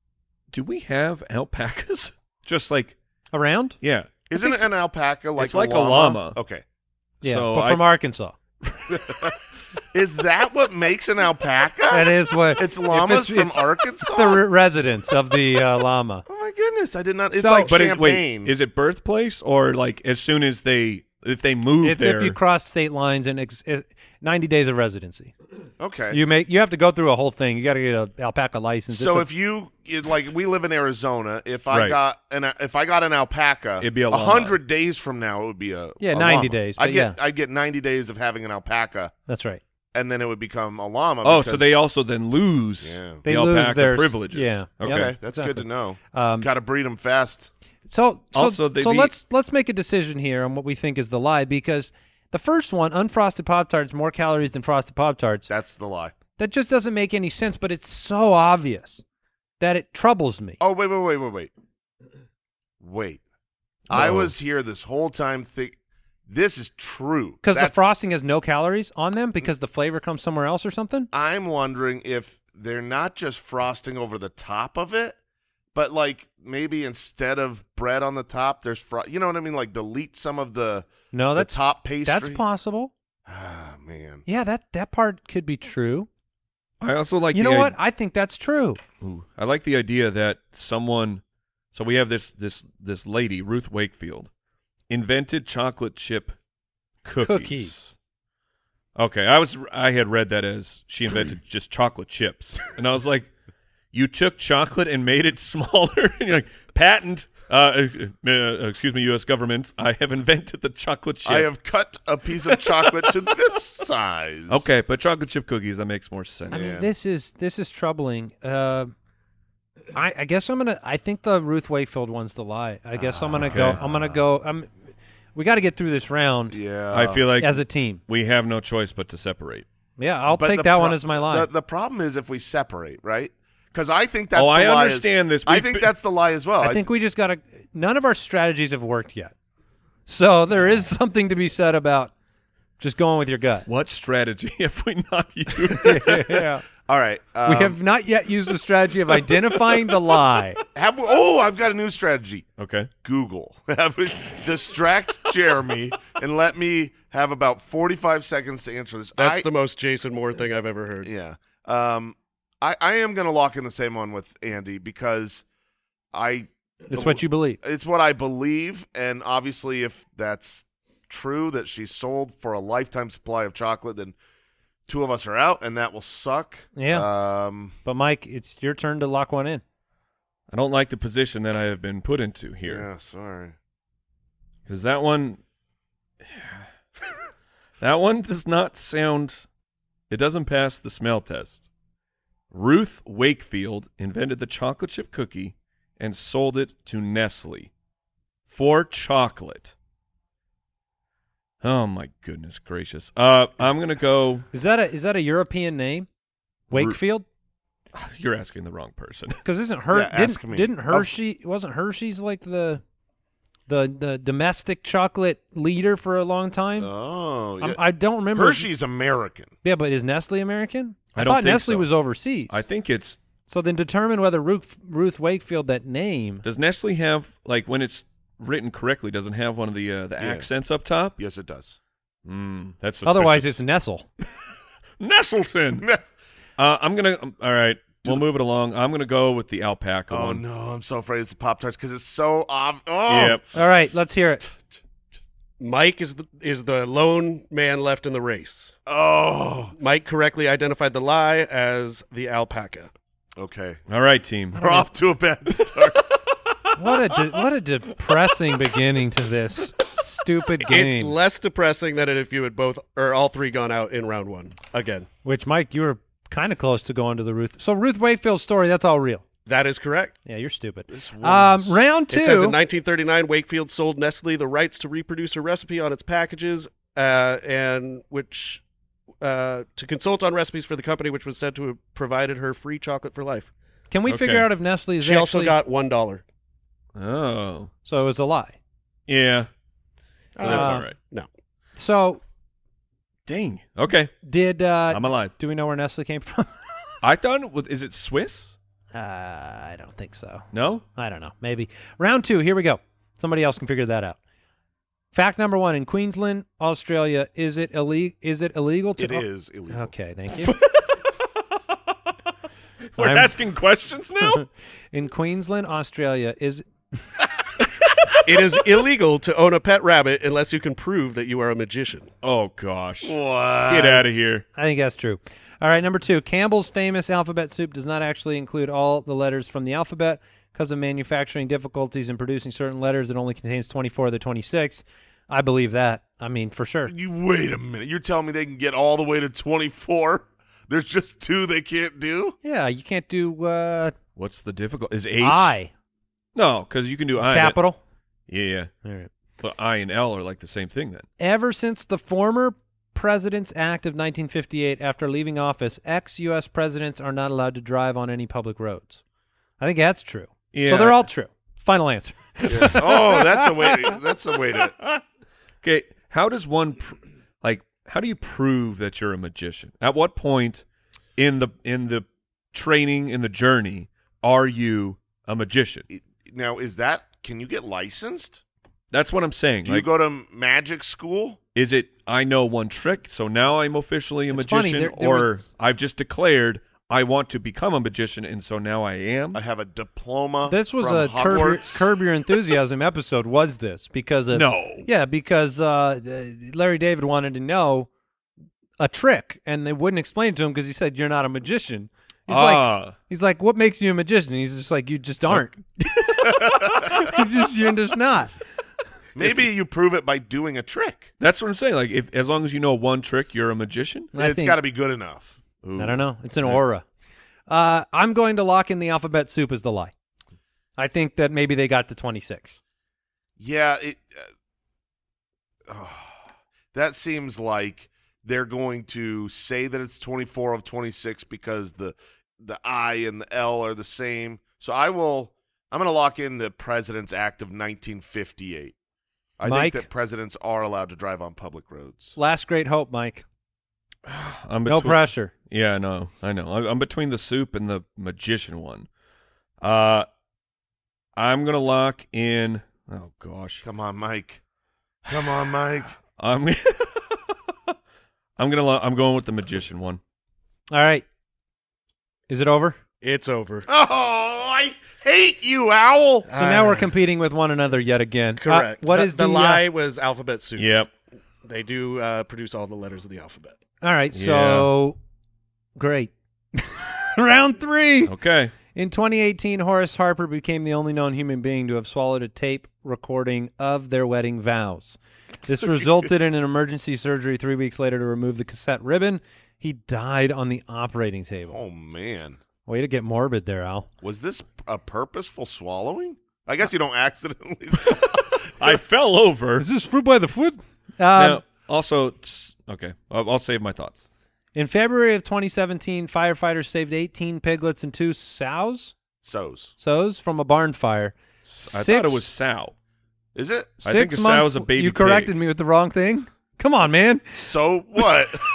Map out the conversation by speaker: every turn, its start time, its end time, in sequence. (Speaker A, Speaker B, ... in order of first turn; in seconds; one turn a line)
Speaker A: 0.5-3.0
Speaker B: 3.3-3.8
Speaker A: 3.8-4.2
Speaker C: 4.3-6.6
Speaker A: 5.4-6.4
Speaker A: 7.2-7.8
Speaker B: 7.2-8.4
Speaker A: 8.6-9.2
Speaker C: 8.9-9.3
Speaker C: 9.9-14.4
Speaker B: 11.9-16.2
Speaker C: 16.3-18.5
Speaker B: 17.3-17.7
Speaker A: 17.6-22.4
Speaker B: 21.8-25.3
Speaker C: 25.8-26.2
Speaker B: 26.1-29.3
Speaker C: 28.9-39.1
Speaker A: 31.7-32.0
Speaker A: 33.8-34.6
Speaker B: 36.0-37.1
Speaker B: 39.3-39.6
Speaker C: 39.9-41.8
Speaker A: 41.2-45.1
Speaker C: 42.8-43.2
Speaker B: 43.2-46.5
Speaker C: 44.8-47.5
Speaker B: 47.9-55.5
Speaker A: 48.3-49.1
Speaker C: 55.5-56.1
Speaker B: 56.4-59.0
Speaker B: 59.6-60.6
Speaker C: 60.6-61.5
Speaker C: 62.8-63.2
Speaker C: 63.9-67.8
Speaker A: 63.9-64.3
Speaker B: 67.4-71.1
Speaker C: 71.1-75.2
Speaker C: 75.7-82.4
Speaker B: 81.1-82.9
Speaker C: 83.3-84.2
Speaker B: 84.3-86.1
Speaker A: 86.8-87.8
Speaker B: 87.3-88.8
Speaker A: 89.0-91.2
Speaker A: 91.7-94.3
Speaker A: 94.9-96.3
Speaker A: 97.0-98.0
Speaker B: 97.2-97.7
Speaker A: 99.0-103.3
Speaker A: 103.9-111.5
Speaker C: 111.2-114.7
Speaker A: 112.6-113.1
Speaker A: 114.5-116.8
Speaker C: 116.5-116.9
Speaker B: 116.5-118.9
Speaker B: 119.9-124.7
Speaker C: 122.9-124.2
Speaker A: 123.5-123.8
Speaker B: 125.3-126.6
Speaker C: 126.5-127.2
Speaker A: 126.9-129.7
Speaker B: 127.4-128.0
Speaker B: 130.0-131.5
Speaker C: 130.3-136.9
Speaker A: 134.3-135.9
Speaker B: 136.6-139.3
Speaker B: 140.1-142.1
Speaker B: 142.8-143.7
Speaker A: 143.7-146.2
Speaker B: 145.8-146.6
Speaker C: 145.9-146.2
Speaker C: 146.8-147.8
Speaker B: 147.4-150.6
Speaker C: 150.8-152.4
Speaker A: 152.6-152.9
Speaker C: 153.0-159.5
Speaker D: 159.2-161.1
Speaker C: 161.0-165.4
Speaker C: 166.1-174.2
Speaker B: 166.9-167.6
Speaker C: 174.9-177.8
Speaker B: 176.8-177.1
Speaker B: 177.8-179.6
Speaker A: 180.5-182.9
Speaker C: 182.7-183.6
Speaker A: 184.7-185.4
Speaker A: 186.3-186.7
Speaker A: 187.8-189.4
Speaker A: 190.1-191.7
Speaker A: 192.5-197.7
Speaker A: 198.5-199.7
Speaker A: 201.6-204.4
Speaker B: 204.5-206.1
Speaker A: 206.7-207.0
Speaker B: 206.7-207.2
Speaker A: 207.9-209.4
Speaker B: 209.4-212.8
Speaker C: 209.9-211.1
Speaker B: 213.7-216.9
Speaker C: 216.8-217.8
Speaker B: 217.6-218.7
Speaker C: 218.3-219.5
Speaker B: 219.6-222.6
Speaker A: 221.1-221.9
Speaker A: 222.5-223.2
Speaker B: 223.5-226.4
Speaker A: 226.4-231.2
Speaker C: 230.2-230.5
Speaker C: 231.2-231.8
Speaker A: 232.2-233.6
Speaker B: 233.1-234.1
Speaker A: 235.0-235.9
Speaker C: 235.8-236.0
Speaker A: 236.6-240.4
Speaker C: 240.1-243.4
Speaker A: 243.1-243.4
Speaker B: 243.5-244.4
Speaker D: 245.6-248.7
Speaker C: 248.8-249.7
Speaker D: 249.8-252.9
Speaker C: 253.3-253.8
Speaker A: 253.9-254.7
Speaker C: 254.5-256.2
Speaker B: 256.8-261.1
Speaker D: 260.6-265.1
Speaker B: 265.2-269.2
Speaker D: 269.5-270.1
Speaker B: 270.2-272.6
Speaker C: 270.9-271.8
Speaker D: 272.1-278.6
Speaker D: 279.2-283.5
Speaker B: 283.9-285.6
Speaker A: 284.1-284.5
Speaker D: 285.0-286.2
Speaker A: 287.0-288.0
Speaker B: 287.9-288.6
Speaker A: 289.1-289.5
Speaker D: 290.4-291.3
Speaker A: 290.4-290.9
Speaker B: 290.4-290.9
Speaker B: 291.8-292.2
Speaker A: 293.3-294.1
Speaker B: 294.2-296.5
Speaker A: 294.9-295.3
Speaker A: 297.0-298.6
Speaker B: 298.9-300.4
Speaker A: 300.5-300.8
Speaker B: 301.0-304.2
Speaker B: 305.1-310.5
Speaker C: 309.0-309.9
Speaker A: 310.4-310.8
Speaker A: 312.9-314.4
Speaker B: 313.0-313.3
Speaker B: 314.2-316.6
Speaker D: 318.2-322.1
Speaker A: 322.2-324.4
Speaker C: 323.0-324.2
Speaker B: 324.6-336.9
Speaker C: 336.9-342.4
Speaker B: 342.4-344.0
Speaker A: 344.1-345.6
Speaker B: 345.2-345.7
Speaker A: 346.4-347.6
Speaker B: 347.2-347.8
Speaker A: 348.3-348.7
Speaker A: 349.4-351.1
Speaker B: 351.2-359.0
Speaker B: 359.6-363.9
Speaker A: 360.5-361.1
Speaker C: 362.5-364.8
Speaker A: 365.6-370.6
Speaker A: 371.2-375.9
Speaker C: 375.9-378.4
Speaker A: 378.9-379.9
Speaker C: 379.6-381.4
Speaker A: 381.5-389.4
Speaker B: 384.3-385.5
Speaker C: 389.3-391.9
Speaker B: 390.5-397.9
Speaker A: 394.3-394.9
Speaker B: 398.8-408.3
Speaker A: 402.3-402.9
Speaker C: 406.2-407.0
Speaker C: 409.1-411.1
Speaker A: 411.2-414.1
Speaker B: 414.1-414.6
Speaker C: 414.1-415.4
Speaker A: 415.6-416.6
Speaker B: 415.8-416.9
Speaker B: 417.5-419.9
Speaker B: 420.8-422.6
Speaker C: 423.4-424.3
Speaker C: 425.7-426.2
Speaker C: 426.7-438.8
Speaker C: 439.4-442.1
Speaker B: 439.4-439.9
Speaker B: 442.1-443.2
Speaker A: 444.1-448.9
Speaker B: 444.6-445.3
Speaker A: 449.6-450.1
Speaker A: 451.1-453.6
Speaker C: 453.6-454.4
Speaker C: 455.1-455.9
Speaker A: 456.2-457.3
Speaker A: 458.4-460.0
Speaker B: 460.7-461.0
Speaker B: 462.3-462.8
Speaker D: 463.0-463.6
Speaker C: 463.6-466.3
Speaker D: 466.3-466.9
Speaker B: 466.4-469.6
Speaker D: 468.4-470.7
Speaker A: 470.6-470.9
Speaker D: 471.4-473.6
Speaker B: 473.8-475.0
Speaker A: 474.1-474.7
Speaker B: 475.8-478.1
Speaker A: 478.1-478.5
Speaker B: 478.8-491.6
Speaker C: 491.5-492.4
Speaker B: 492.6-493.9
Speaker C: 494.0-498.8
Speaker A: 498.6-499.6
Speaker B: 499.6-501.4
Speaker A: 501.1-504.1
Speaker B: 504.5-508.9
Speaker C: 509.2-509.7
Speaker B: 509.8-512.2
Speaker A: 511.4-512.7
Speaker C: 513.4-513.8
Speaker A: 513.8-515.4
Speaker B: 513.8-517.2
Speaker C: 517.3-518.4